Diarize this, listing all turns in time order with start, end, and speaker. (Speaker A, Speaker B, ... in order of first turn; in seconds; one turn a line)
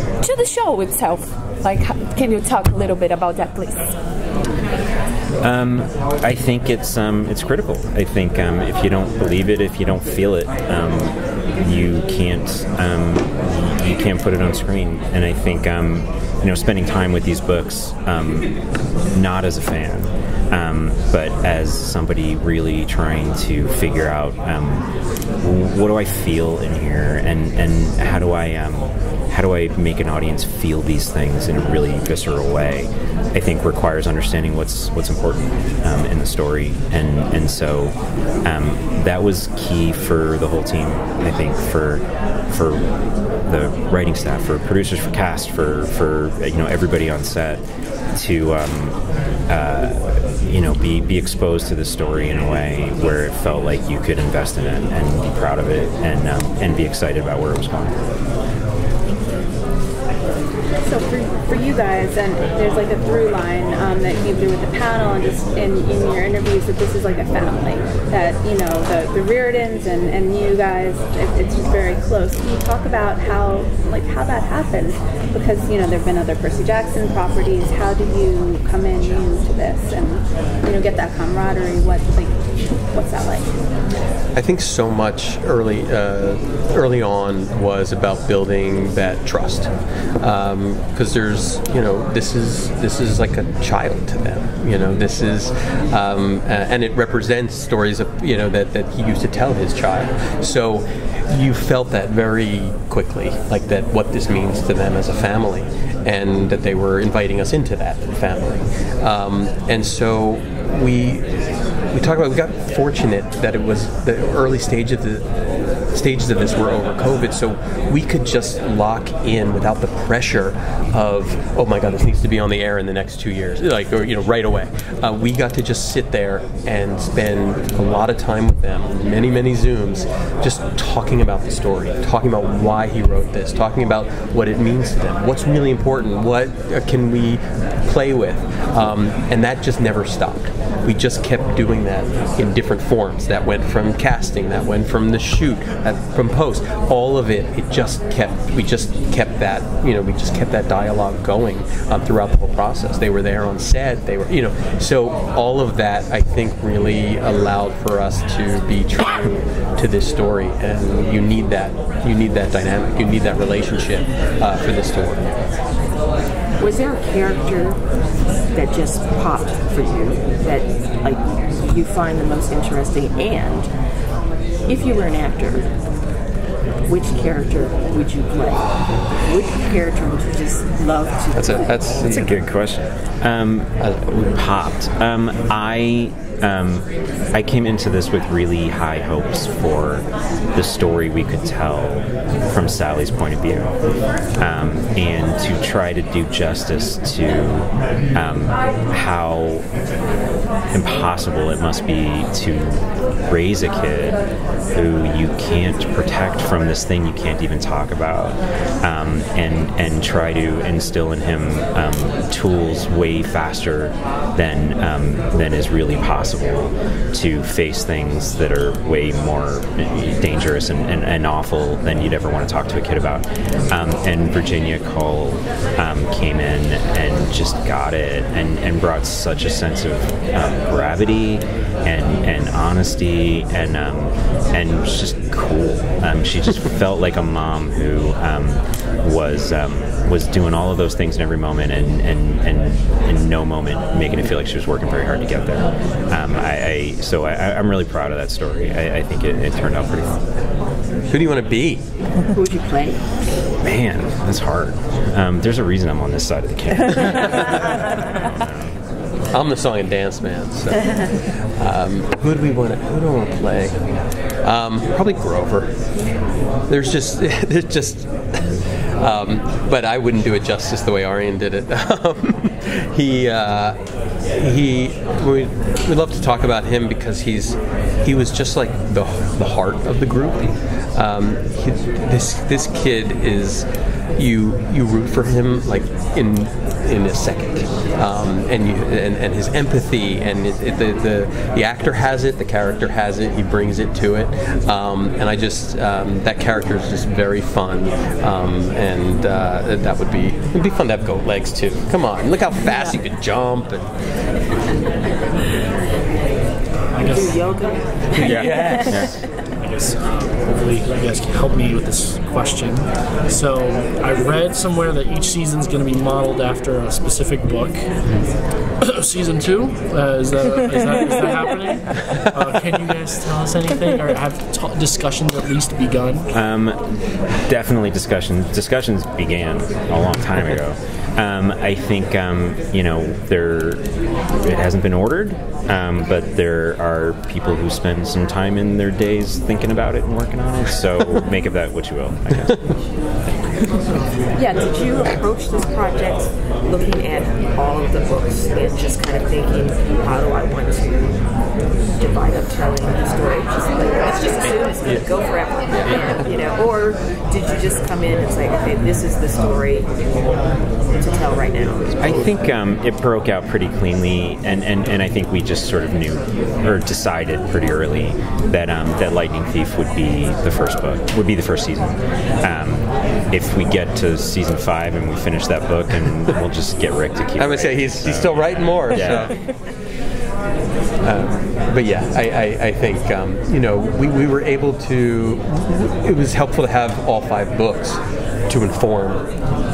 Speaker A: 0.2-3.9
Speaker B: 5.4-18.5
Speaker B: 19.1-24.9
Speaker B: 25.4-42.8
Speaker B: 43.5-47.6
Speaker B: 48.1-49.0
Speaker B: 49.5-57.9
Speaker C: 60.8-82.4
Speaker C: 82.9-83.5
Speaker D: 84.3-89.7
Speaker D: 90.2-111.3
Speaker D: 111.9-115.2
Speaker D: 115.9-165.3
Speaker E: 166.6-167.8
Speaker E: 168.5-173.7
Speaker E: 174.7-175.7
Speaker E: 176.9-181.9
Speaker D: 181.3-182.5
Speaker B: 182.0-193.7
Speaker D: 183.8-184.4
Speaker B: 194.4-199.6
Speaker B: 200.7-204.2
Speaker B: 204.7-250.2
Speaker D: 251.1-251.8
Speaker E: 252.3-253.0
Speaker B: 253.6-258.7
Speaker D: 259.3-263.8
Speaker D: 264.4-265.7
Speaker D: 266.7-273.8
Speaker D: 274.4-303.9
Speaker F: 306.9-307.6
Speaker E: 307.1-308.9
Speaker B: 308.1-309.2
Speaker F: 308.3-308.6
Speaker D: 308.4-308.7
Speaker F: 309.6-317.9
Speaker F: 318.8-326.3
Speaker B: 326.3-326.8
Speaker B: 327.4-333.8
Speaker B: 334.4-342.6
Speaker E: 344.4-351.1
Speaker E: 352.0-359.9
Speaker D: 354.1-355.1
Speaker D: 355.7-356.3
Speaker E: 360.9-362.0
Speaker B: 362.0-379.3
Speaker D: 377.4-379.4
Speaker D: 381.0-389.2